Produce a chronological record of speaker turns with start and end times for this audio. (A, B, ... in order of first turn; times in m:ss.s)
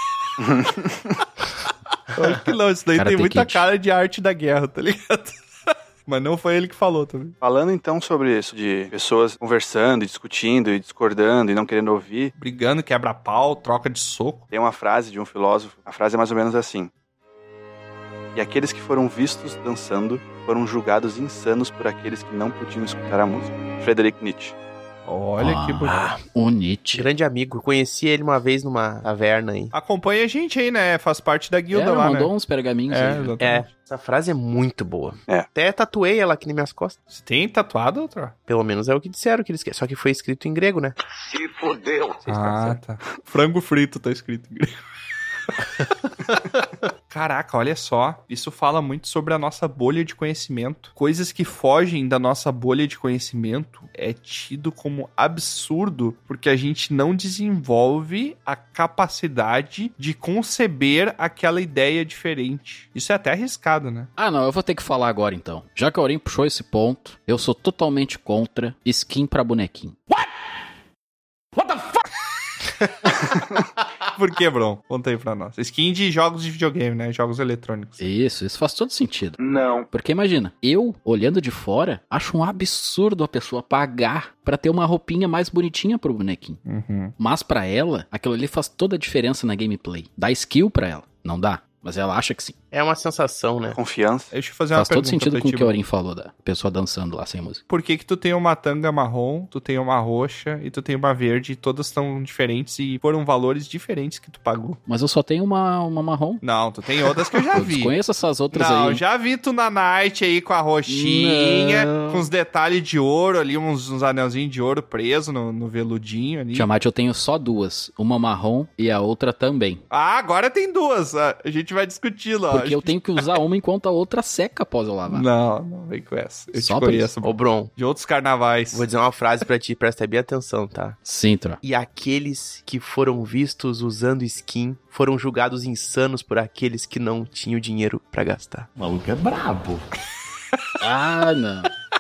0:00.4-0:01.0 A
0:02.1-0:05.4 B
0:03.0-0:03.6 C
0:06.1-0:07.4 B
0:07.4-0:12.3 A
0:12.4-0:14.5 B
0:14.5-0:16.9 A
0:18.4-0:24.6 A
0:25.1-0:26.1 B
0:25.4-0:27.1 C
0:25.9-0:26.2 D
0:26.9-0:29.7 D
0:29.7-0:32.3 B
0:31.7-0:33.4 C
0:32.9-0:33.7 B
0:33.4-0:37.0 D
0:37.1-0:38.4 B
0:38.5-0:41.0 D
0:42.3-0:42.7 D
0:42.3-0:44.8 B
0:47.1-1:04.1 B
1:04.2-1:10.0 C
1:14.1-1:18.0 B
1:18.0-1:26.6 C
1:19.4-1:19.8 A
1:26.7-1:27.2 B
1:27.2-1:32.6 C
1:32.7-1:33.8 D
1:33.8-1:34.3 A
1:34.3-1:35.8 B
1:34.8-1:37.6 C
1:37.7-1:44.8 B
1:44.9-1:46.4 C
1:46.4-1:48.0 B
1:47.6-1:49.0 C
1:48.5-1:56.7 B
1:50.9-1:52.3 C
1:56.5-1:59.8 C
1:59.9-2:03.0 B
2:02.5-2:05.2 C
2:05.1-2:08.9 B
2:06.6-2:07.1 C
2:07.2-2:07.7 D
2:08.7-2:11.0 D
2:11.0-2:11.6 C
2:11.6-2:18.7 D
2:20.8-2:21.7 C